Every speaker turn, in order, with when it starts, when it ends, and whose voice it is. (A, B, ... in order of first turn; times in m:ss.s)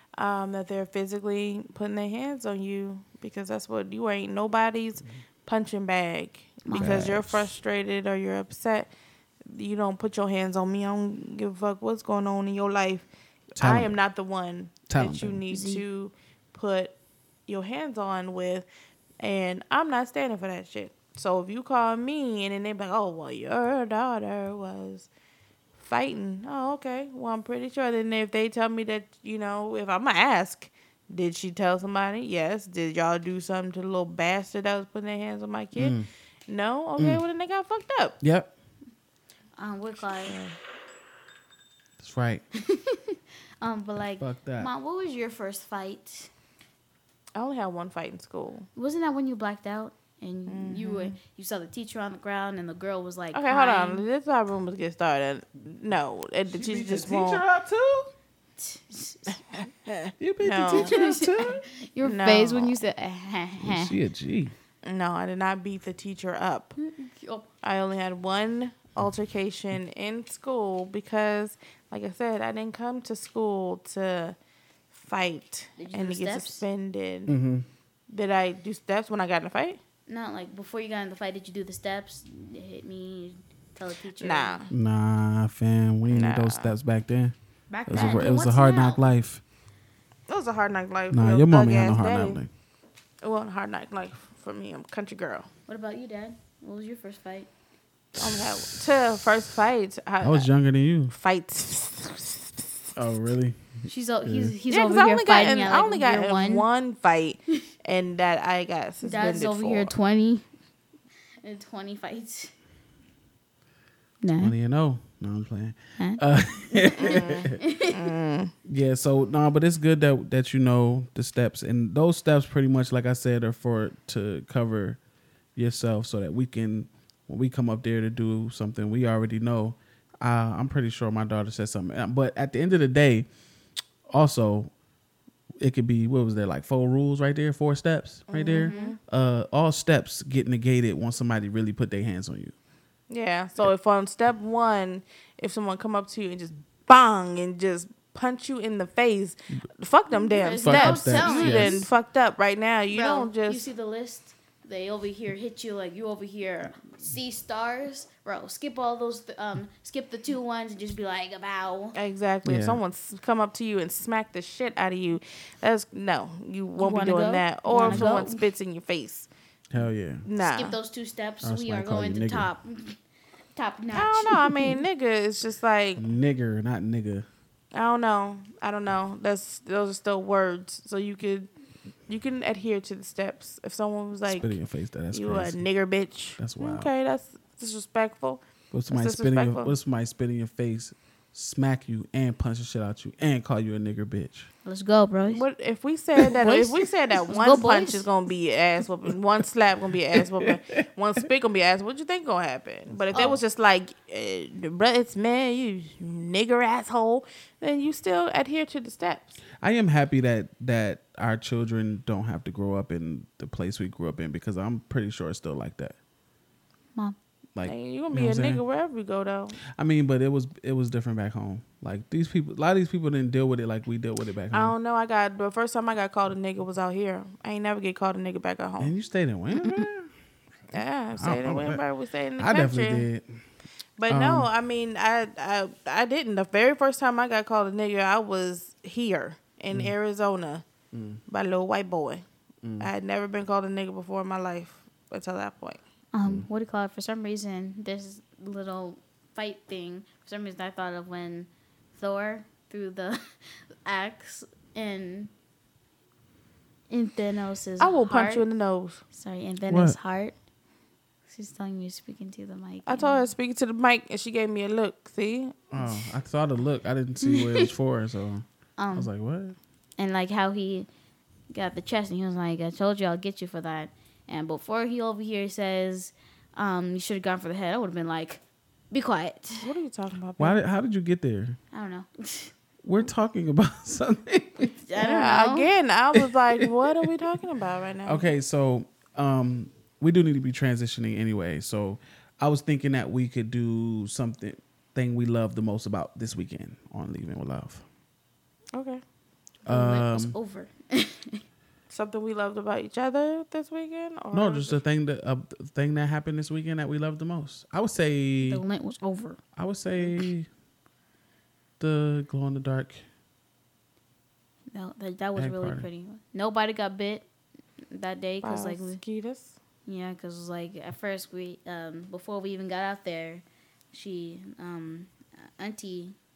0:00.2-0:08.9 A
0:06.7-0:07.1 B
0:06.7-0:07.5 C
0:09.5-0:17.0 A
0:13.6-0:14.0 C
0:14.9-0:15.4 C
0:15.5-0:15.8 B
0:17.5-0:18.7 A
0:19.2-0:25.1 A
0:25.8-0:38.2 A
0:35.8-0:36.1 C
0:37.0-0:37.2 C
0:38.2-0:38.5 C
0:39.6-0:40.4 B
0:40.3-0:40.6 A
0:42.0-0:42.4 C
0:42.7-0:46.3 B
0:44.2-0:44.7 C
0:47.4-0:48.7 A
0:48.8-0:54.0 B
0:50.5-0:51.2 A
0:53.3-0:57.4 A
0:56.5-0:58.1 C
0:58.6-0:59.4 B
0:59.6-1:01.0 A
1:00.2-1:01.6 C
1:00.8-1:04.0 B
1:02.0-1:02.8 A
1:03.6-1:04.6 C
1:04.8-1:06.8 A
1:06.8-1:07.5 B
1:07.6-1:14.4 A
1:14.9-1:17.4 A
1:15.8-1:16.6 B
1:17.3-1:17.7 C
1:18.1-1:19.8 A
1:20.1-1:24.6 B
1:24.2-1:24.7 A
1:24.7-1:29.4 C
1:26.1-1:26.7 A
1:27.7-1:29.0 B
1:28.0-1:28.3 A
1:30.3-1:32.4 A
1:31.1-1:32.5 C
1:33.2-1:35.5 A
1:35.7-1:37.5 B
1:38.1-1:39.1 C
1:38.2-1:42.7 A
1:40.2-1:41.1 C
1:43.0-1:44.5 C
1:43.9-1:46.7 B
1:44.7-1:49.9 A
1:49.0-1:50.5 B
1:51.4-1:52.5 B
1:54.2-1:54.5 B
1:54.4-1:57.6 C
1:57.0-1:58.5 A
1:57.6-1:57.9 B
1:58.7-2:05.0 C
2:05.6-2:13.3 C
2:14.1-2:14.7 C
2:15.6-2:22.5 C
2:18.3-2:19.0 A
2:18.5-2:19.0 B
2:23.1-2:33.7 A
2:30.2-2:31.9 B
2:30.6-2:31.9 C
2:32.9-2:42.0 B
2:41.9-2:49.3 A
2:42.4-2:42.8 C
2:46.8-2:48.4 B
2:47.8-2:48.2 C
2:49.7-2:50.3 C
2:50.2-2:50.8 A
2:50.4-2:53.0 B
2:51.4-2:52.5 C
2:53.6-2:54.8 B
2:53.9-2:56.1 A
2:56.0-2:57.3 C
2:57.7-3:01.5 A
3:02.1-3:04.6 A
3:04.3-3:05.6 C
3:05.1-3:09.7 A
3:06.4-3:06.9 C
3:08.7-3:14.5 C
3:14.6-3:15.4 B
3:15.3-3:29.4 A
3:16.2-3:16.8 C
3:17.3-3:18.1 B
3:20.2-3:20.6 C
3:23.0-3:23.4 C
3:29.6-3:36.0 C
3:37.6-3:38.6 C
3:37.6-3:39.6 A
3:39.6-3:44.8 C
3:44.5-3:48.9 A
3:48.8-3:50.1 C
3:50.7-3:53.1 A
3:51.2-3:51.8 C
3:52.4-3:53.4 C
3:54.0-4:00.6 A
3:54.1-3:54.5 C
4:00.9-4:01.2 C
4:01.3-4:02.3 A
4:02.6-4:02.9 C
4:02.8-4:05.8 A
4:06.1-4:15.3 B
4:16.9-4:18.5 B
4:17.8-4:19.0 A
4:19.1-4:20.4 B
4:19.7-4:20.0 C
4:21.3-4:23.3 B
4:22.9-4:25.7 A
4:25.7-4:29.6 C
4:27.3-4:27.6 B
4:28.8-4:29.1 B
4:30.0-4:30.9 B
4:31.5-4:39.6 B
4:39.6-4:40.6 A
4:40.4-4:41.6 C
4:41.7-4:42.5 B
4:42.8-4:44.7 C
4:44.8-4:45.7 B
4:45.0-4:48.3 A
4:46.1-4:47.1 C
4:48.0-4:57.8 C
4:58.7-4:59.0 A
4:59.7-5:00.4 C
4:59.7-5:01.4 B
5:01.9-5:04.8 A
5:04.3-5:08.6 C
5:08.4-5:09.4 B
5:09.6-5:10.5 C
5:11.8-5:13.0 C
5:14.7-5:17.2 B
5:15.4-5:15.9 C
5:17.9-5:19.0 B
5:18.4-5:19.6 A
5:19.9-5:26.2 B